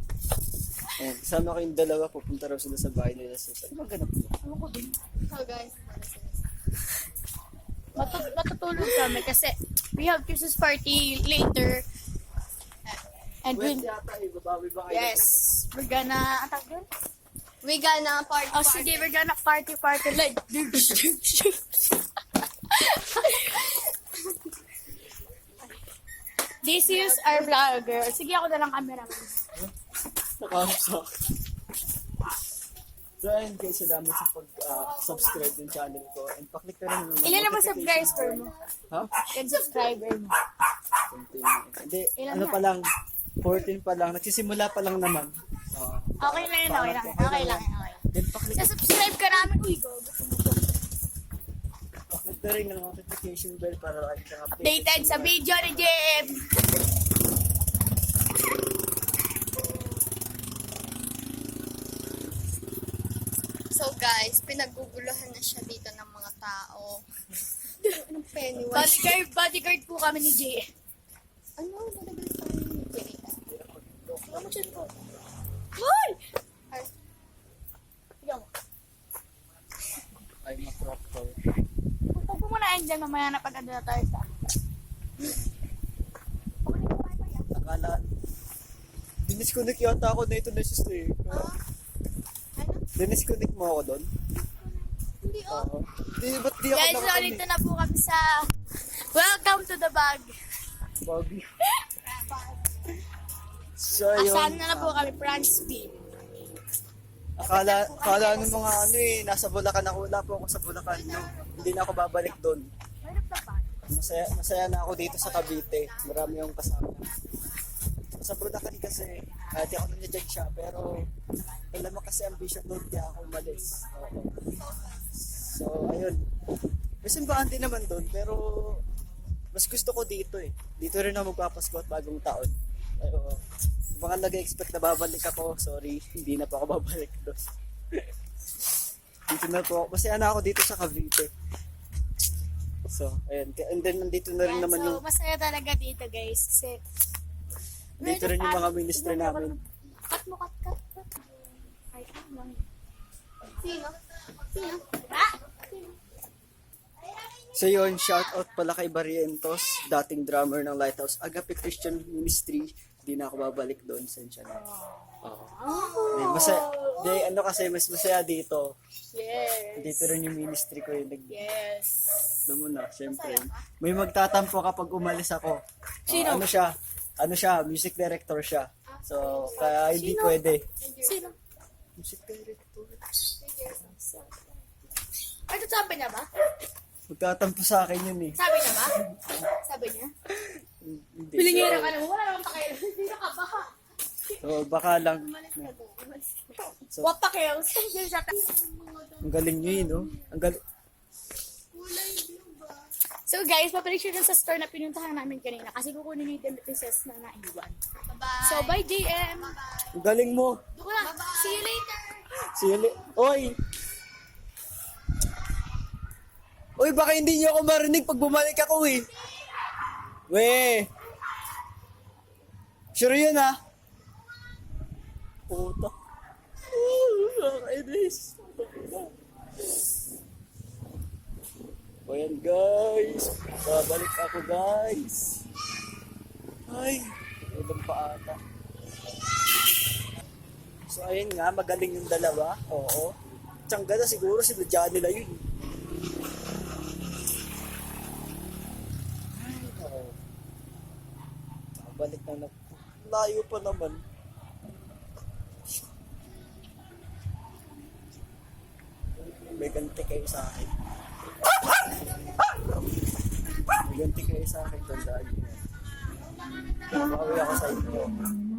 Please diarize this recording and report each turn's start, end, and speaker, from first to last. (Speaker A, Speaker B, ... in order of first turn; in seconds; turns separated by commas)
Speaker A: 1.0-4.3, Speaker B: 4.4-4.9, Speaker C: 5.3-6.4, Speaker B: 8.0-11.8, Speaker C: 8.0-8.3, Speaker C: 8.8-9.2, Speaker B: 13.4-13.9, Speaker A: 13.6-15.6, Speaker B: 14.9-16.9, Speaker C: 17.6-19.1, Speaker B: 18.5-22.0, Speaker B: 22.7-23.9, Speaker B: 26.6-29.4, Speaker C: 26.9-27.5, Speaker A: 30.4-31.1, Speaker A: 33.2-39.2, Speaker B: 35.0-35.3, Speaker B: 37.2-38.5, Speaker B: 39.3-40.4, Speaker C: 39.5-39.9, Speaker A: 41.1-42.9, Speaker B: 42.2-42.6, Speaker A: 43.4-48.7, Speaker B: 46.2-50.6, Speaker A: 52.1-55.4, Speaker B: 54.5-56.5, Speaker C: 63.7-67.0, Speaker B: 67.8-68.1, Speaker C: 68.1-69.2, Speaker B: 68.7-70.7, Speaker C: 71.6-73.4, Speaker A: 73.5-74.6, Speaker B: 74.3-74.9, Speaker B: 75.8-76.2, Speaker B: 78.2-78.5, Speaker A: 80.4-81.4, Speaker B: 82.1-84.3, Speaker B: 86.7-87.5, Speaker A: 87.5-88.1, Speaker A: 89.2-91.5, Speaker C: 91.3-91.6, Speaker C: 92.6-92.8, Speaker A: 93.0-94.1, Speaker C: 95.0-95.7, Speaker A: 95.5-97.5, Speaker B: 96.7-98.5, Speaker B: 99.1-100.3, Speaker A: 101.0-101.5, Speaker A: 103.8-105.0, Speaker B: 104.2-106.0, Speaker A: 107.4-112.7, Speaker B: 107.4-108.8, Speaker C: 110.8-111.8, Speaker B: 113.0-113.8, Speaker A: 113.9-117.1, Speaker B: 115.1-116.0, Speaker A: 118.2-121.1, Speaker A: 121.7-124.4, Speaker A: 125.3-126.2, Speaker A: 127.0-128.8, Speaker A: 129.5-133.4, Speaker A: 133.9-137.4, Speaker A: 139.3-141.3, Speaker A: 142.9-145.0, Speaker B: 144.4-146.8, Speaker B: 148.0-152.7, Speaker A: 148.0-149.5, Speaker C: 153.6-154.8, Speaker B: 154.5-155.4, Speaker C: 157.0-158.2, Speaker A: 157.5-164.6, Speaker B: 164.5-167.2, Speaker C: 165.7-166.7, Speaker A: 166.1-168.7, Speaker B: 169.1-170.2, Speaker A: 169.8-171.4, Speaker B: 171.3-172.4, Speaker A: 172.5-180.6, Speaker B: 173.1-173.5, Speaker B: 176.1-176.5, Speaker C: 178.9-179.8, Speaker B: 179.3-180.4, Speaker C: 180.8-181.3, Speaker B: 181.0-181.4, Speaker A: 182.0-183.0, Speaker C: 183.4-184.4, Speaker B: 183.8-184.5, Speaker B: 185.5-186.3, Speaker A: 187.1-188.4, Speaker B: 188.4-188.9, Speaker A: 189.1-189.4, Speaker B: 189.5-190.1, Speaker A: 190.8-192.0, Speaker B: 191.4-193.7, Speaker A: 194.4-195.7, Speaker B: 195.7-198.4, Speaker A: 196.9-197.1, Speaker C: 198.4-199.2, Speaker A: 199.2-200.6, Speaker C: 201.7-202.9, Speaker B: 203.3-207.8, Speaker C: 208.1-210.0, Speaker B: 208.4-209.6, Speaker A: 209.9-210.6, Speaker B: 210.8-212.3, Speaker C: 211.0-211.7, Speaker A: 212.5-213.6, Speaker A: 216.8-219.1, Speaker A: 220.3-220.9, Speaker A: 222.9-223.6, Speaker A: 225.5-225.9, Speaker A: 226.7-229.1, Speaker A: 232.1-235.4, Speaker A: 236.7-238.4, Speaker A: 240.9-243.2, Speaker A: 243.7-245.5, Speaker A: 249.4-250.2, Speaker A: 251.8-254.0, Speaker A: 259.6-260.7, Speaker A: 263.8-265.6, Speaker A: 266.9-268.1